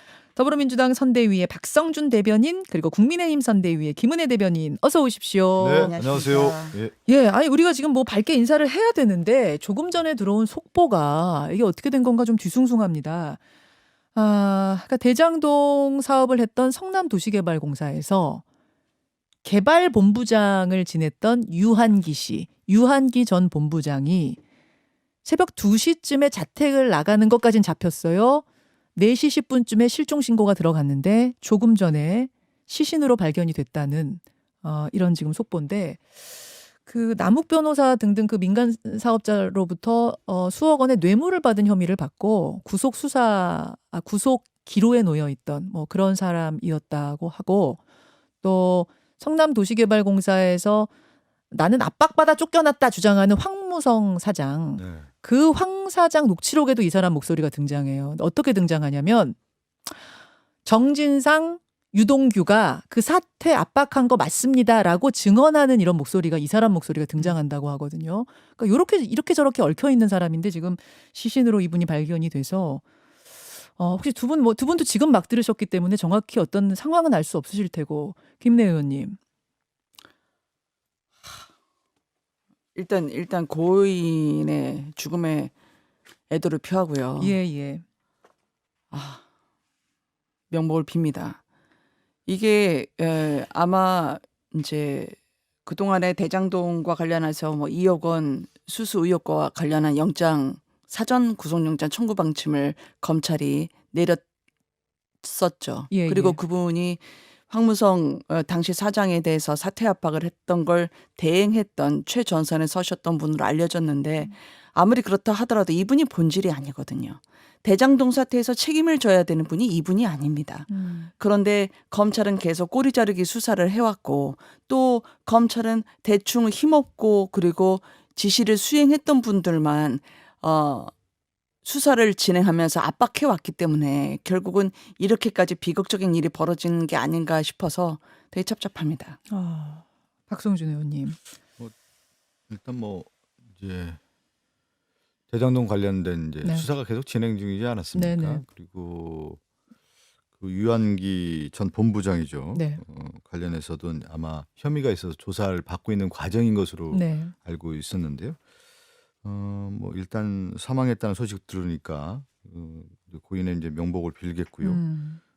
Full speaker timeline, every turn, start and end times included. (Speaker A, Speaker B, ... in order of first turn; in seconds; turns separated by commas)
Speaker A: 0.3-5.9, Speaker B: 5.6-6.9, Speaker C: 5.8-6.8, Speaker A: 7.1-13.4, Speaker A: 14.1-18.4, Speaker A: 19.4-24.4, Speaker A: 25.2-28.4, Speaker A: 28.9-36.0, Speaker A: 36.9-47.8, Speaker A: 48.4-50.9, Speaker A: 51.5-59.4, Speaker B: 54.8-55.1, Speaker A: 60.6-72.8, Speaker A: 73.8-79.2, Speaker C: 82.7-85.5, Speaker C: 86.3-87.3, Speaker A: 87.2-87.8, Speaker C: 88.9-89.2, Speaker C: 90.5-91.4, Speaker C: 92.3-104.2, Speaker C: 105.2-130.9, Speaker A: 105.9-106.4, Speaker A: 120.7-121.1, Speaker C: 131.6-139.2, Speaker A: 139.3-141.2, Speaker B: 142.5-144.0, Speaker B: 145.3-149.4, Speaker A: 147.9-148.4, Speaker B: 150.4-158.4, Speaker A: 152.5-152.8, Speaker A: 156.9-157.3, Speaker B: 159.2-164.8, Speaker A: 164.6-165.2